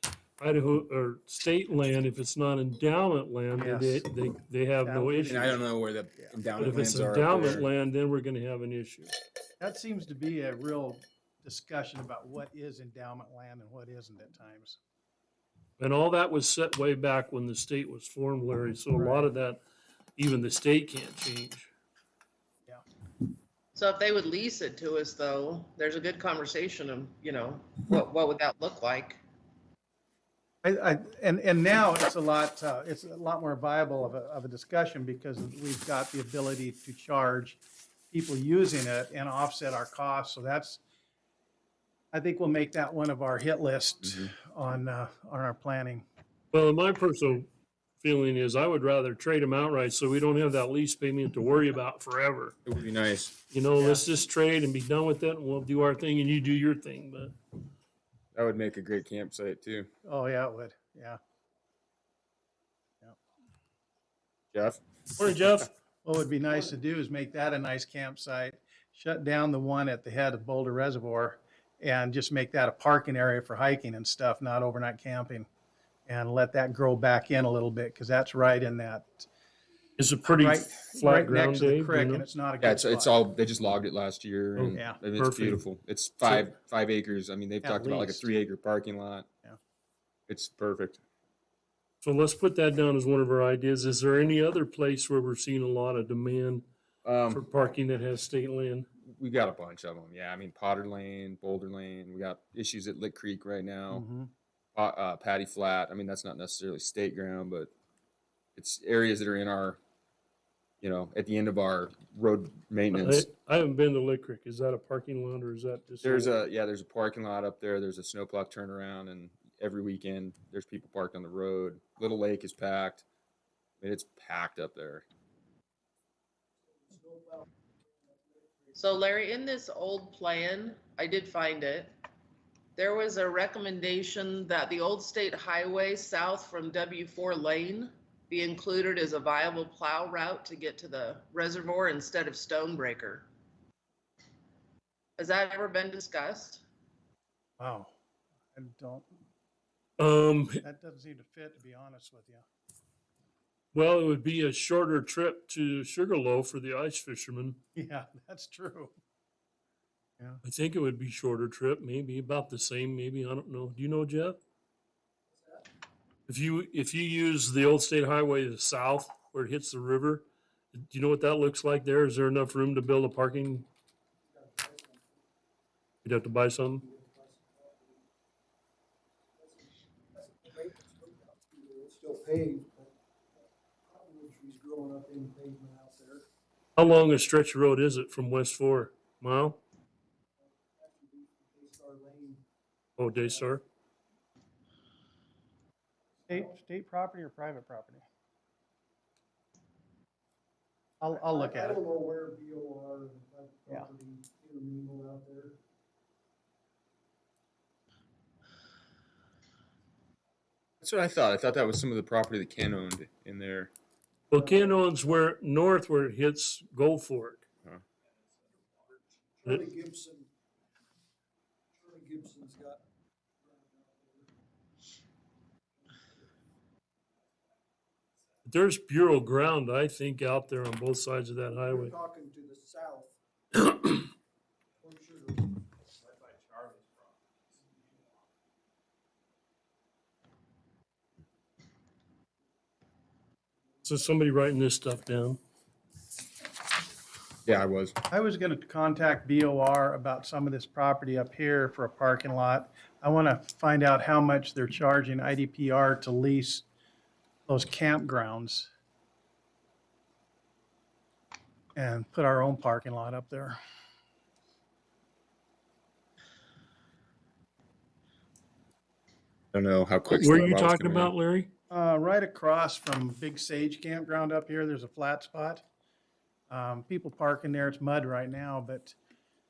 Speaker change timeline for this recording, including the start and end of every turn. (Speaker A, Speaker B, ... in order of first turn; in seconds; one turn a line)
Speaker A: 0.4-5.4
Speaker B: 3.5-4.0
Speaker B: 4.8-5.7
Speaker C: 5.3-7.7
Speaker A: 6.5-9.2
Speaker B: 9.6-14.8
Speaker A: 15.8-19.6
Speaker B: 18.9-19.3
Speaker A: 20.2-21.7
Speaker D: 23.7-29.2
Speaker B: 30.6-37.6
Speaker B: 38.1-40.8
Speaker B: 42.1-46.0
Speaker C: 44.0-44.3
Speaker A: 46.5-47.5
Speaker A: 48.0-52.6
Speaker C: 52.6-53.4
Speaker A: 53.5-57.3
Speaker B: 53.8-54.0
Speaker C: 58.3-59.9
Speaker B: 60.0-61.2
Speaker C: 64.5-64.8
Speaker A: 65.2-65.7
Speaker B: 66.0-75.5
Speaker B: 76.1-79.3
Speaker A: 80.0-82.3
Speaker B: 80.2-83.2
Speaker C: 82.6-89.2
Speaker A: 84.5-85.6
Speaker B: 87.6-88.3
Speaker C: 90.3-91.0
Speaker A: 92.0-96.6
Speaker C: 97.0-97.5
Speaker A: 97.3-98.9
Speaker C: 99.0-104.0
Speaker B: 103.9-104.3
Speaker C: 104.7-107.7
Speaker C: 108.5-109.8
Speaker C: 110.8-113.2
Speaker A: 112.9-116.3
Speaker C: 116.0-123.0
Speaker C: 123.8-125.0
Speaker E: 126.6-128.8
Speaker D: 128.8-131.9
Speaker D: 132.8-143.2
Speaker D: 145.2-146.6
Speaker B: 147.6-147.9
Speaker B: 148.5-149.1
Speaker A: 150.0-150.6
Speaker B: 150.6-152.4
Speaker A: 153.7-157.6
Speaker B: 157.7-158.9
Speaker A: 160.4-164.4
Speaker E: 165.3-165.7
Speaker A: 166.3-173.7
Speaker E: 174.2-175.3
Speaker A: 176.0-176.8
Speaker E: 176.7-178.0
Speaker E: 179.4-186.2
Speaker A: 186.8-189.6
Speaker E: 190.4-192.4
Speaker A: 193.0-193.6
Speaker E: 193.1-193.6
Speaker B: 196.3-198.0
Speaker B: 201.0-201.8
Speaker E: 201.1-205.6
Speaker C: 210.8-213.7
Speaker A: 214.3-217.4
Speaker E: 214.3-214.7
Speaker E: 219.3-220.3
Speaker E: 221.7-222.8
Speaker E: 223.4-224.3
Speaker A: 228.4-231.9
Speaker E: 231.5-233.1
Speaker E: 234.8-235.6
Speaker A: 243.8-245.4
Speaker C: 247.4-247.9
Speaker B: 248.1-256.6
Speaker B: 257.5-258.7
Speaker B: 261.7-263.6
Speaker C: 269.5-271.1
Speaker A: 270.1-271.5
Speaker B: 271.7-275.6
Speaker B: 276.5-278.9